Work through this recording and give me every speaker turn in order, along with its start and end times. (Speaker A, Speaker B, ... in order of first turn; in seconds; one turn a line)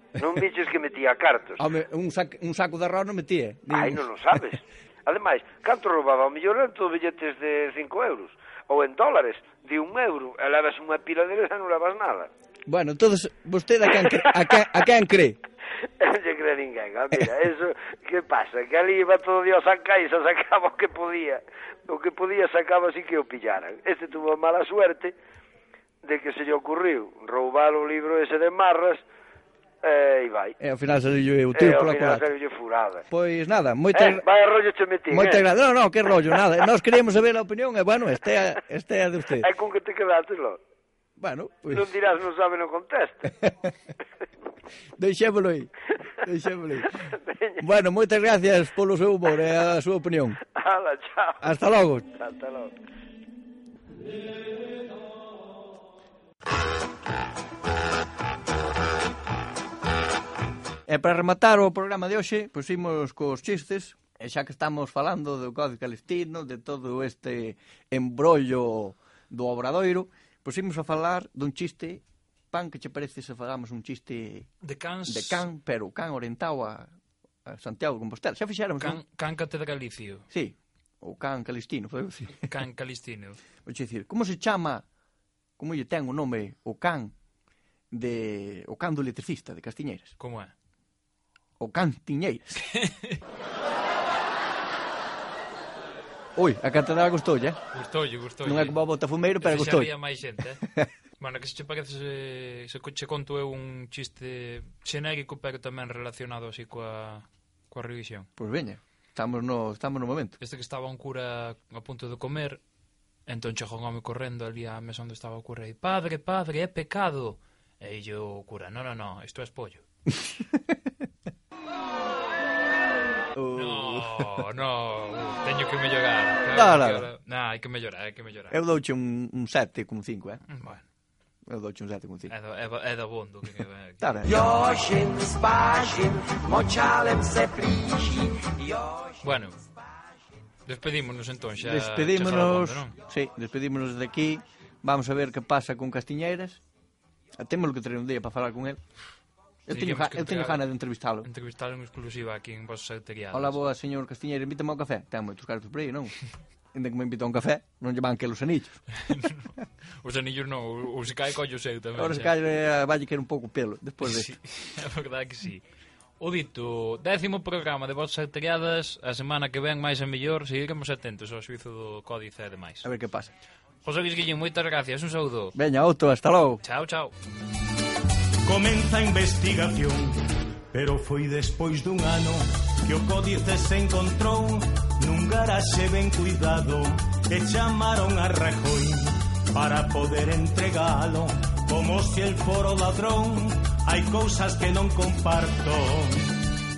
Speaker A: 0.2-1.6
Speaker B: 1.6-4.4
Speaker A: 3.7-12.3
Speaker B: 12.7-15.4
Speaker A: 16.0-25.2
Speaker A: 26.0-29.0
Speaker A: 29.8-30.6
Speaker B: 30.6-32.3
Speaker A: 31.6-33.1
Speaker B: 33.1-34.2
Speaker A: 33.9-35.4
Speaker B: 35.1-39.5
Speaker A: 39.4-40.6
Speaker B: 41.2-41.9
Speaker A: 41.7-43.3
Speaker B: 43.4-43.7
Speaker B: 45.0-45.7
Speaker B: 46.2-46.9
Speaker A: 47.1-47.6
Speaker B: 47.6-50.4
Speaker A: 50.4-51.4
Speaker B: 51.4-52.1
Speaker A: 52.1-52.7
Speaker B: 60.9-74.5
Speaker C: 74.6-75.5
Speaker B: 75.1-76.9
Speaker B: 77.5-79.0
Speaker C: 78.8-80.3
Speaker B: 80.3-82.5
Speaker C: 82.4-83.4
Speaker B: 83.7-84.8
Speaker B: 85.6-87.1
Speaker B: 87.9-90.1
Speaker C: 90.2-90.5
Speaker B: 91.6-92.6
Speaker C: 92.7-93.2
Speaker B: 96.4-97.6
Speaker C: 97.7-98.8
Speaker B: 98.4-99.9
Speaker C: 99.4-100.7
Speaker C: 101.2-108.3
Speaker B: 108.4-110.4
Speaker C: 110.4-112.6
Speaker C: 113.3-119.8
Speaker B: 120.2-120.9
Speaker B: 123.3-124.4
Speaker C: 123.5-128.6
Speaker B: 126.5-127.1
Speaker B: 128.5-130.4
Speaker C: 130.5-130.8
Speaker B: 131.5-132.3
Speaker C: 132.3-134.3
Speaker B: 134.0-134.3
Speaker D: 134.3-139.2
Speaker C: 139.2-139.6
Speaker C: 140.7-143.0
Speaker B: 141.6-146.6
Speaker B: 147.4-148.8
Speaker B: 149.7-151.3
Speaker C: 149.7-150.7
Speaker C: 151.2-153.6
Speaker B: 153.3-156.2
Speaker B: 156.7-158.8
Speaker C: 159.1-162.3
Speaker B: 162.0-164.4
Speaker C: 164.0-165.6
Speaker C: 166.2-172.9
Speaker B: 172.8-173.3
Speaker C: 173.8-175.6
Speaker B: 175.6-176.6
Speaker C: 176.6-177.1
Speaker E: 178.4-196.4